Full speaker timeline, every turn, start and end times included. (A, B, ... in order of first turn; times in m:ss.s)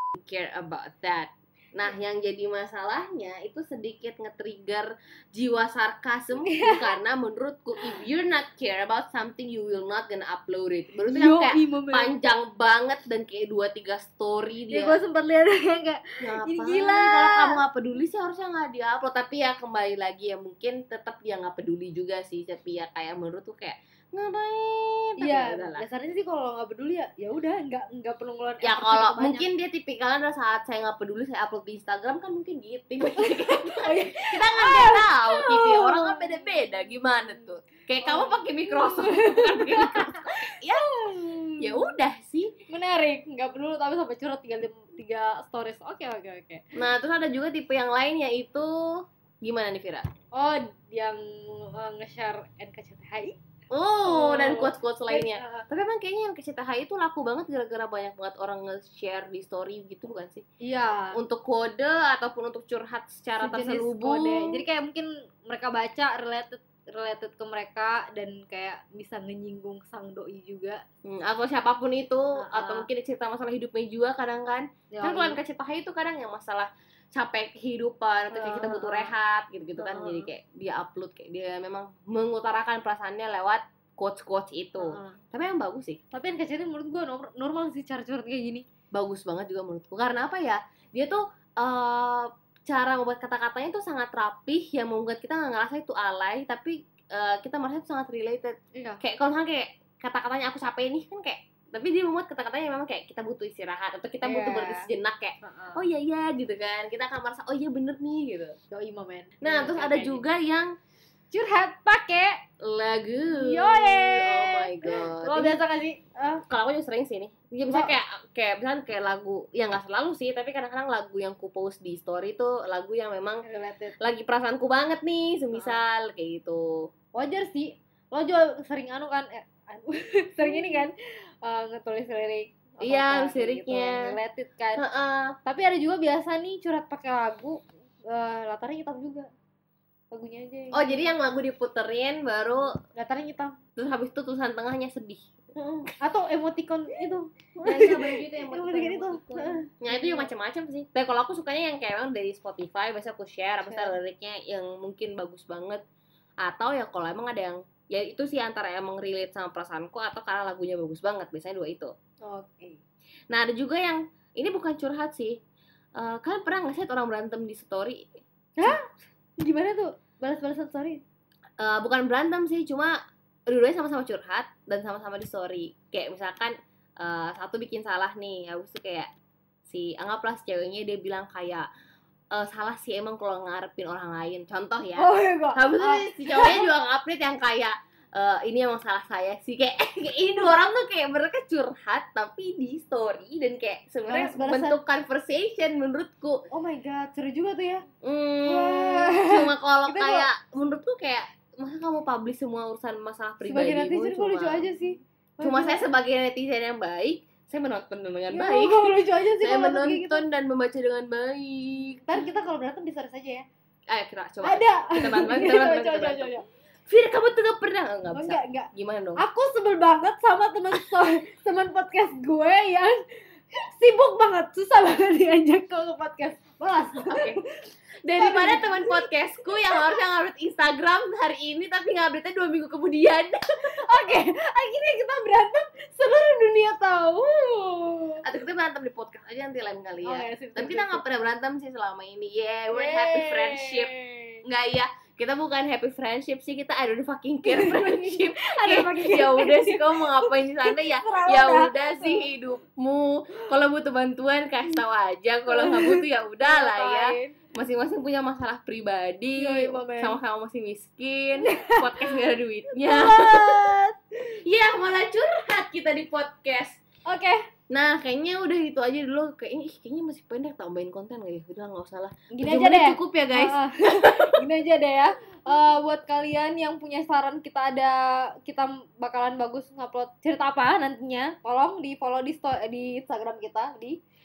0:00.2-0:15.0 A
0:06.4-0:06.9 B
0:11.1-0:12.1 B
0:14.7-0:17.6 B
0:16.2-0:25.8 A
0:25.2-0:29.4 B
0:28.6-0:40.9 A
0:33.2-0:37.4 B
0:38.0-0:41.9 B
0:41.6-0:42.5 A
0:42.7-0:46.7 B
0:46.8-0:50.1 A
0:50.3-0:53.4 B
0:53.7-1:00.4 A
0:54.1-0:55.6 B
1:00.6-1:01.2 B
1:01.2-1:04.6 A
1:03.4-1:10.8 B
1:11.0-1:26.0 A
1:12.4-1:12.9 B
1:14.9-1:15.4 B
1:18.3-1:19.1 B
1:19.8-1:20.3 B
1:24.8-1:25.2 B
1:26.1-1:28.6 B
1:28.9-1:48.6 A
1:38.8-1:39.0 B
1:44.2-1:44.9 B
1:45.4-1:45.8 B
1:48.7-1:50.2 B
1:49.4-1:50.7 A
1:51.3-1:52.4 B
1:52.6-1:55.6 A
1:53.3-1:56.4 B
1:56.5-2:03.4 A
1:57.7-1:57.9 B
2:03.4-2:04.0 B
2:04.0-2:06.7 A
2:05.5-2:05.8 B
2:07.2-2:14.8 B
2:12.8-2:14.2 A
2:14.8-2:15.4 A
2:15.4-2:17.6 B
2:18.1-2:19.3 B
2:20.1-2:21.1 B
2:20.7-2:22.8 A
2:22.8-2:23.6 B
2:23.8-2:25.3 A
2:25.6-2:30.3 B
2:27.6-2:35.8 A
2:33.6-2:34.0 B
2:36.4-2:41.9 A
2:42.2-2:42.8 B
2:43.3-2:45.4 A
2:46.0-2:48.8 A
2:48.6-2:48.8 B
2:49.4-2:51.0 B
2:51.6-2:53.0 A
2:53.5-2:59.1 A
2:59.7-3:01.7 A
3:02.3-3:16.4 A
3:05.0-3:06.7 B
3:14.1-3:14.8 B
3:16.5-3:17.9 B
3:18.0-3:24.8 A
3:18.4-3:20.3 B
3:23.4-3:25.8 B
3:25.4-3:32.3 A
3:28.3-3:30.2 B
3:32.1-3:33.4 B
3:33.9-3:36.4 A
3:34.4-3:36.5 B
3:36.9-3:39.2 A
3:38.1-3:43.0 B
3:43.5-3:47.4 B
3:47.0-3:47.4 A
3:48.0-3:53.8 A
3:48.2-3:49.1 B
3:53.8-3:58.2 B
3:58.2-4:03.9 A
4:00.0-4:01.0 B
4:02.7-4:04.4 B
4:04.4-4:23.7 A
4:07.5-4:12.3 B
4:15.5-4:17.4 B
4:19.4-4:20.2 B
4:21.4-4:22.2 B
4:22.8-4:24.0 B
4:24.3-4:26.8 A
4:27.1-4:27.4 B
4:27.7-4:34.4 A
4:32.3-4:44.0 B